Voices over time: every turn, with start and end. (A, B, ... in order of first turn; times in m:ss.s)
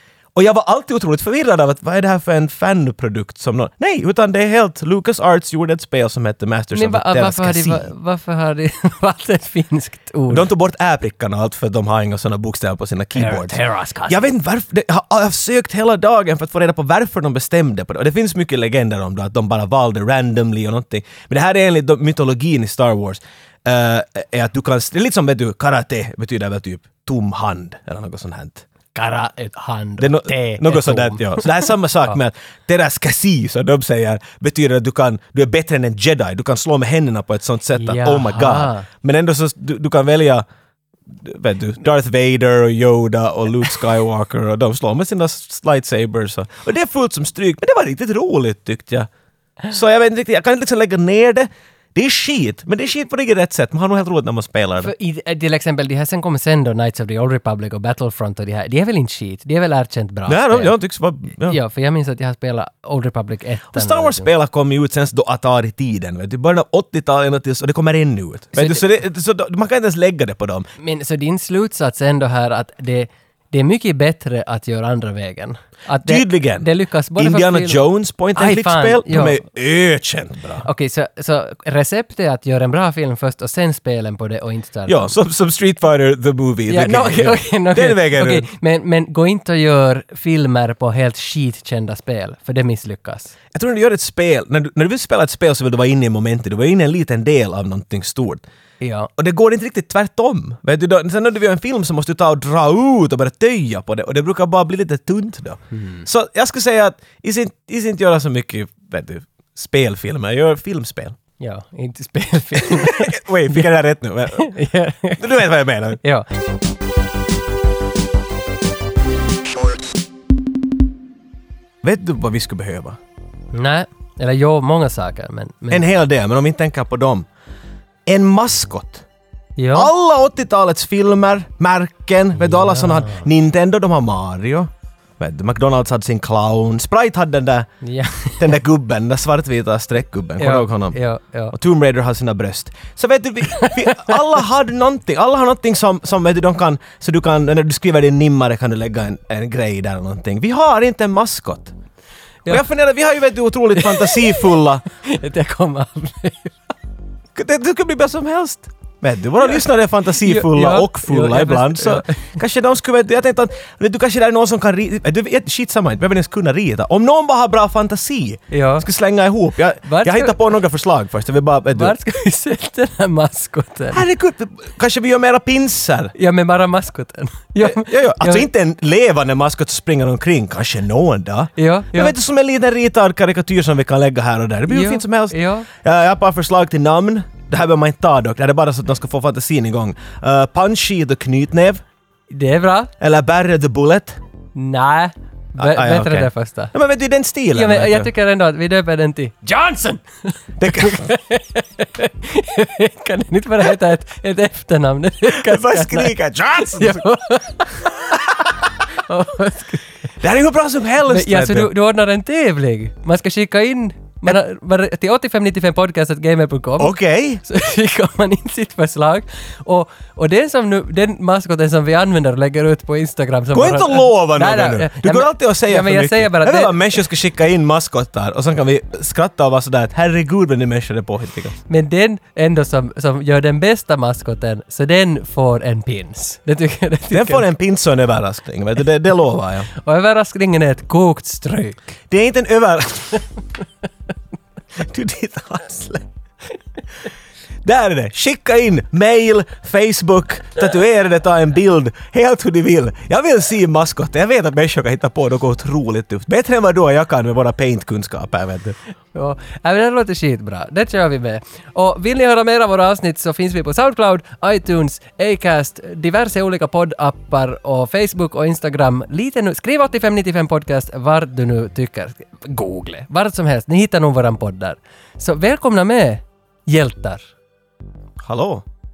0:00.3-0:07.9 A
0:06.7-0:10.5 B
0:10.3-0:28.6 A
0:13.2-0:14.3 B
0:28.9-0:32.1 B
0:30.0-0:40.4 A
0:37.7-0:38.9 B
0:41.1-0:49.1 A
0:49.7-0:54.9 A
0:54.8-1:00.8 B
1:00.3-1:01.6 A
1:01.4-1:04.3 B
1:03.7-1:10.7 A
1:08.5-1:08.8 B
1:10.8-1:19.4 B
1:16.0-1:20.6 A
1:20.6-1:25.1 B
1:24.8-1:28.5 A
1:26.7-1:33.3 B
1:33.5-1:38.4 A
1:38.8-1:39.1 B
1:39.2-1:51.2 A
1:45.7-1:46.1 B
1:51.4-1:53.7 B
1:52.6-1:54.5 A
1:54.3-1:55.4 B
1:55.2-1:56.0 A
1:56.0-1:56.2 B
2:01.8-2:03.0 A
2:03.5-2:05.8 B
2:05.7-2:07.3 A
2:08.0-2:09.0 A
2:09.6-2:09.9 B
2:09.7-2:17.7 A
2:12.4-2:13.2 B
2:17.8-2:18.5 B
2:18.4-2:21.0 A
2:20.4-2:21.5 B
2:21.5-2:31.7 A
2:23.6-2:24.2 B
2:32.5-2:34.8 A
2:33.8-2:36.7 B
2:37.3-2:52.0 A
2:40.2-2:42.3 B
2:48.5-2:48.8 B
2:49.8-2:50.5 B
2:51.7-2:54.0 B
2:53.9-2:56.1 A
2:56.2-2:58.5 B
2:57.6-3:11.8 A
3:01.6-3:02.1 B
3:04.7-3:05.7 B
3:12.3-3:12.9 B
3:13.0-3:14.2 A
3:14.5-3:16.7 B
3:15.6-3:18.1 A
3:17.5-3:28.2 B
3:20.6-3:21.0 A
3:25.3-3:27.0 A
3:29.1-3:29.9 B
3:30.2-3:31.7 A
3:31.0-3:46.8 B
3:36.8-3:37.4 A
3:43.5-3:51.6 A
3:51.7-3:57.4 B
3:57.1-3:59.7 A
3:59.7-4:01.9 B
4:02.1-4:03.2 A
4:04.8-4:06.1 A
4:07.6-4:18.8 A
4:19.1-4:37.2 B
4:38.2-4:38.6 A